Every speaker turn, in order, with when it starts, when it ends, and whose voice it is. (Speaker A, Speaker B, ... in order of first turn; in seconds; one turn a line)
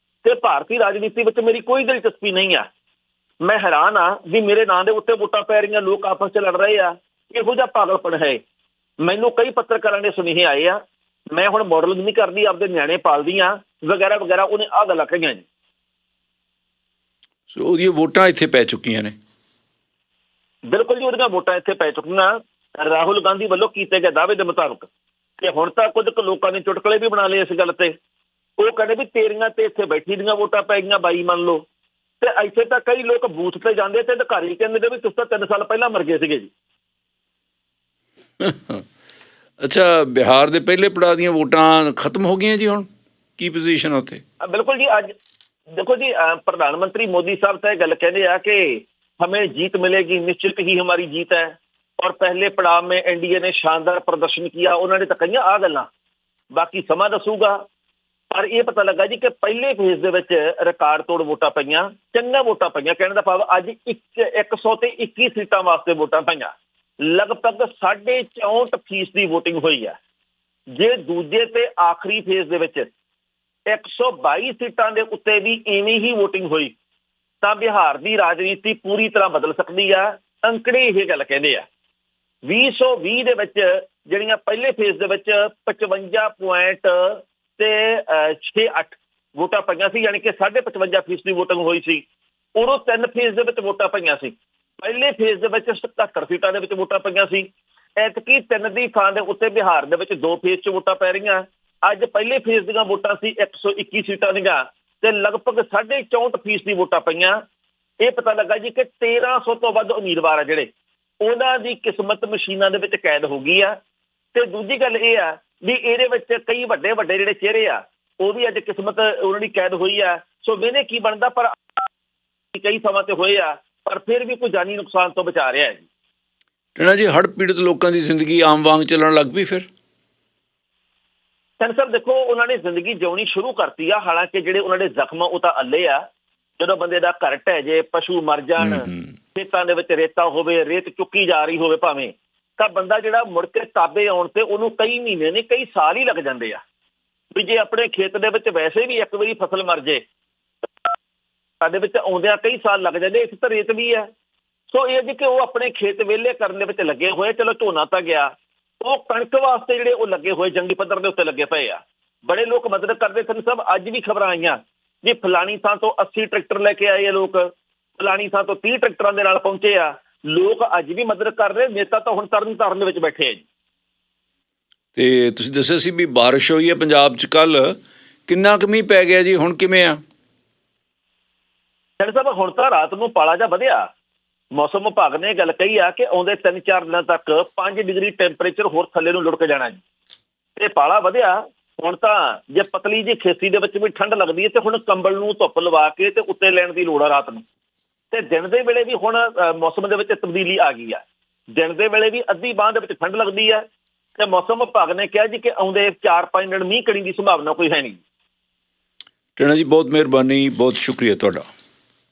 Speaker A: 0.2-2.7
Speaker A: 3.4-8.4
Speaker A: 9.0-10.8
Speaker A: 11.3-15.5
Speaker B: 17.5-19.1
Speaker A: 20.7-24.9
Speaker A: 25.4-27.9
Speaker A: 28.6-31.6
Speaker A: 32.2-36.5
Speaker B: 38.4-38.8
Speaker B: 39.6-42.9
Speaker B: 43.4-44.2
Speaker A: 44.4-45.1
Speaker A: 45.8-55.9
Speaker A: 56.5-57.6
Speaker A: 58.3-70.0
Speaker A: 70.7-72.9
Speaker A: 73.7-76.7
Speaker A: 77.4-81.7
Speaker A: 82.5-92.0
Speaker A: 92.6-107.4
Speaker A: 108.0-110.7
Speaker A: 111.2-113.8
Speaker A: 114.3-121.5
Speaker A: 122.5-125.9
Speaker B: 126.8-129.7
Speaker A: 131.6-136.0
Speaker A: 136.6-146.6
Speaker B: 138.6-139.1
Speaker A: 147.3-150.0
Speaker A: 151.6-154.1
Speaker A: 154.7-173.4
Speaker B: 174.9-180.0
Speaker A: 182.0-183.9
Speaker A: 184.5-189.8
Speaker A: 190.6-197.4
Speaker A: 198.1-201.0
Speaker A: 201.6-203.6
Speaker A: 204.2-208.0
Speaker B: 209.4-211.5